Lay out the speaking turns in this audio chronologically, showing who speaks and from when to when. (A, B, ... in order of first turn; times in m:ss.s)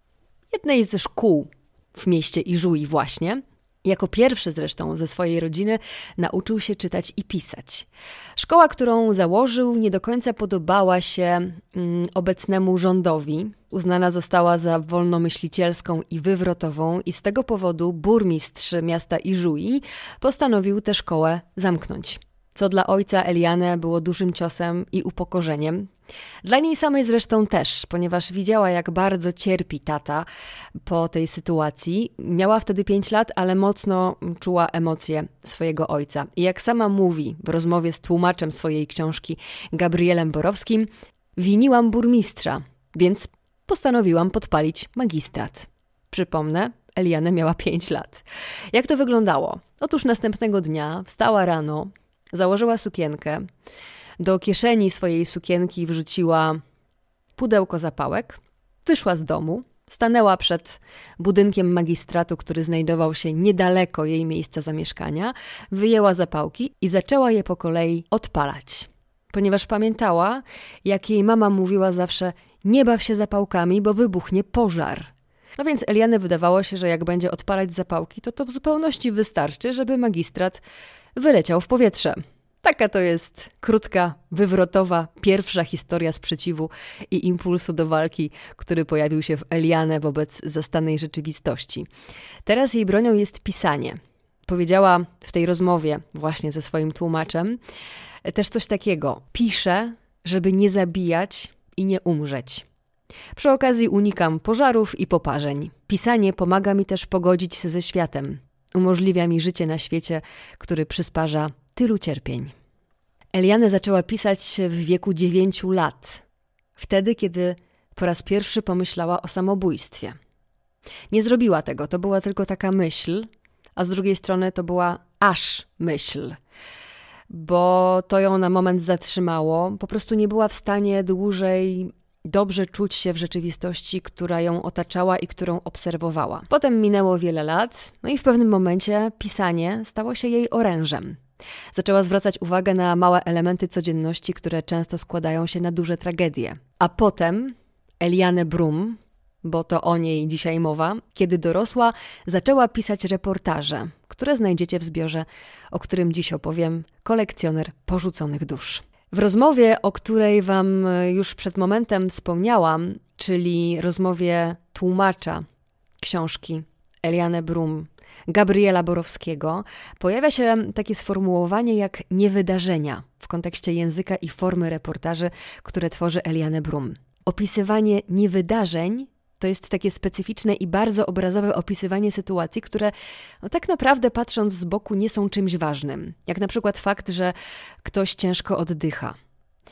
0:00.5-0:25.9 A
0:26.4-0:30.3 A
0:30.8-0:53.5 A
0:54.2-0:56.6 A
0:57.4-1:20.6 A
1:21.2-1:31.9 A
1:32.5-1:37.6 A
1:38.2-1:42.6 A
1:43.4-1:52.5 A
1:53.3-1:56.2 A
1:56.8-2:00.2 A
2:01.1-2:06.4 A
2:07.3-2:21.2 A
2:21.7-2:45.4 A
2:46.0-3:09.2 A